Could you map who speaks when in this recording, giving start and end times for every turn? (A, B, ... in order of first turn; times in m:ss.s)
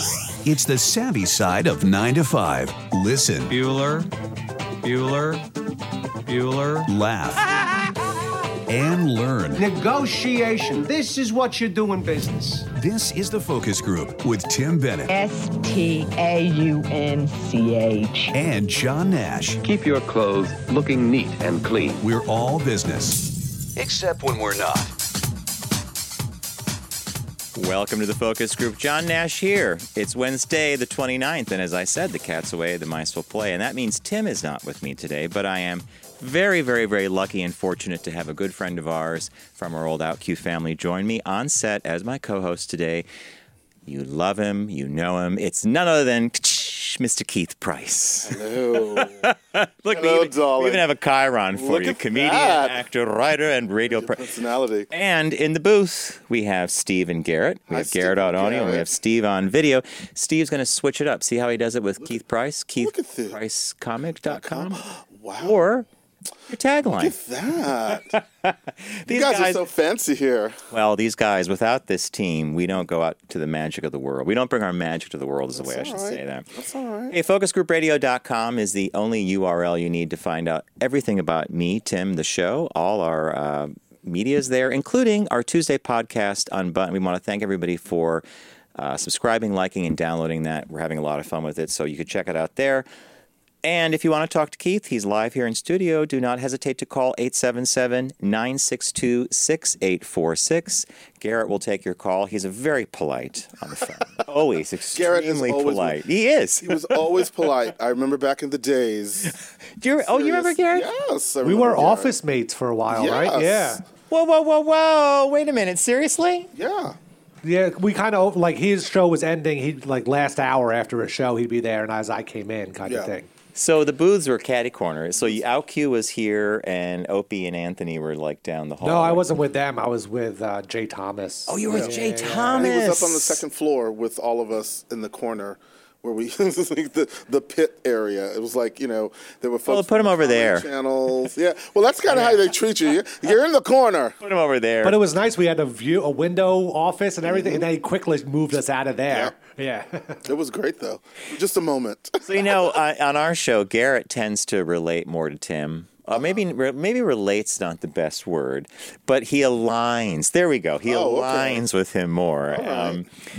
0:00.4-0:03.5 A
0:03.5-0:04.1 B
0:04.8-0:05.4 B
0:06.2-0:06.9 B
0:06.8-0:07.4 A
0:08.7-0:09.6 A
0:09.6-0:12.7 C
0:12.7-0:15.1 A
0:15.1-0:18.3 D
0:18.3-0:19.6 A
0:19.6-0:22.0 E
0:22.0-0:24.9 A
0:27.6-0:43.0 F
0:43.8-0:54.3 F
0:48.2-0:49.3 G
0:49.9-0:50.9 G
0:51.5-0:52.8 G
0:53.9-0:54.9 G
0:54.9-1:04.8 F
0:57.7-0:58.9 G
1:02.8-1:03.4 G
1:04.3-1:05.6 G
1:05.4-1:05.9 F
1:06.5-1:07.2 F
1:06.9-1:08.2 G
1:08.1-1:09.6 F
1:09.1-1:10.6 G
1:10.7-1:16.4 F
1:15.6-1:17.1 G
1:17.1-1:28.2 F
1:28.8-1:32.9 F
1:33.6-1:47.1 F
1:44.9-1:46.0 G
1:46.6-1:49.3 G
1:49.8-1:50.9 F
1:50.0-1:52.2 G
1:51.4-1:53.8 H
1:52.9-1:53.8 G
1:54.1-1:56.5 F
1:56.5-1:57.0 G
1:57.4-2:03.3 H
2:02.8-2:03.1 G
2:03.5-2:09.2 F
2:08.8-2:12.7 H
2:11.5-2:13.4 F
2:12.6-2:24.2 G
2:19.7-2:20.7 F
2:22.1-2:22.5 F
2:24.2-2:25.0 F
2:24.8-2:30.2 H
2:27.2-2:27.7 G
2:29.1-2:29.3 G
2:30.2-2:32.7 G
2:32.2-2:43.1 F
2:40.8-2:41.6 G
2:42.5-2:43.0 G